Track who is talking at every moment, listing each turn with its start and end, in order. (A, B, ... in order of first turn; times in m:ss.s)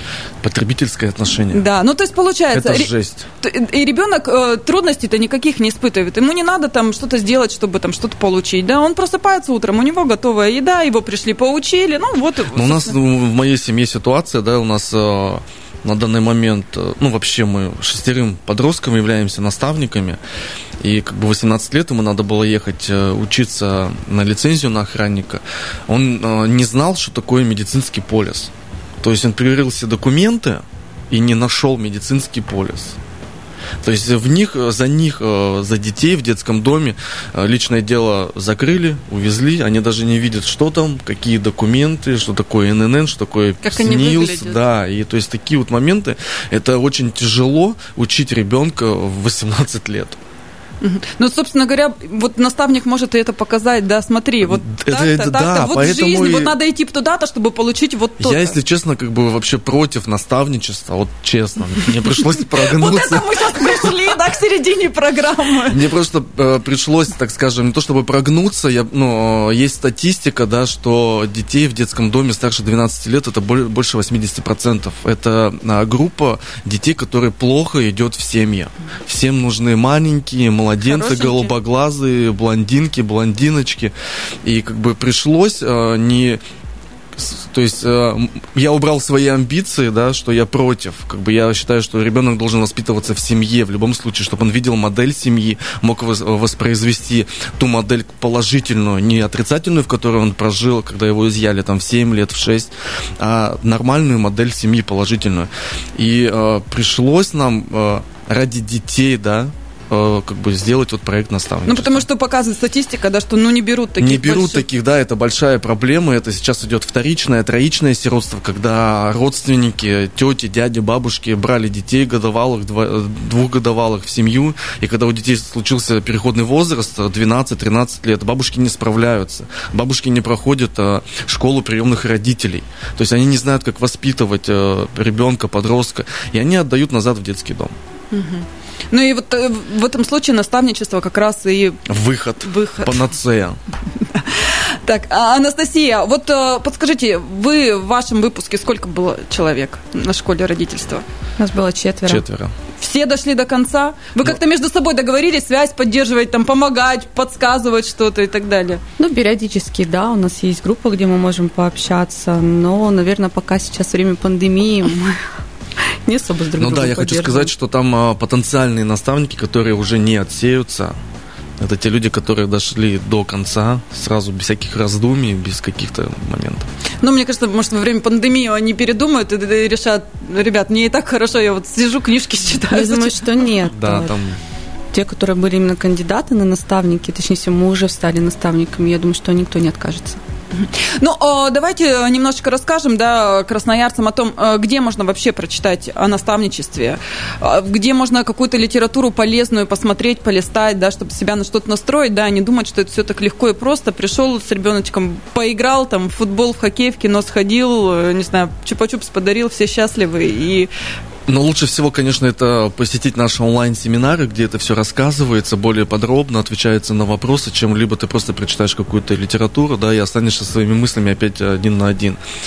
0:00.4-0:01.7 A
0:01.5-0:12.9 B
0:02.5-0:03.3 A
0:12.5-0:20.2 A
0:20.8-0:28.5 A
0:29.0-0:33.0 A
0:33.8-0:50.2 A
0:43.6-0:44.6 B
0:50.8-0:58.6 B
0:54.4-0:56.5 A
0:58.2-1:04.0 A
1:02.4-1:05.8 B
1:05.7-1:23.9 A
1:20.8-1:21.5 B
1:24.4-1:26.4 A
1:27.2-1:52.0 A
1:51.6-1:54.6 B
1:54.0-2:17.7 A
2:18.1-2:21.8 B
2:21.9-2:23.6 A
2:22.4-2:23.0 B
2:24.1-2:31.0 B
2:31.4-2:32.2 C
2:32.0-2:32.5 A
2:32.8-2:38.8 B
2:39.0-2:45.2 C
2:46.0-2:47.5 C
2:46.6-2:51.0 A
2:51.6-2:56.7 A
2:57.0-3:03.2 B
3:02.7-3:04.1 C
3:03.6-3:04.4 A
3:04.9-3:10.2 C
3:10.5-3:30.7 B
3:31.3-3:42.2 A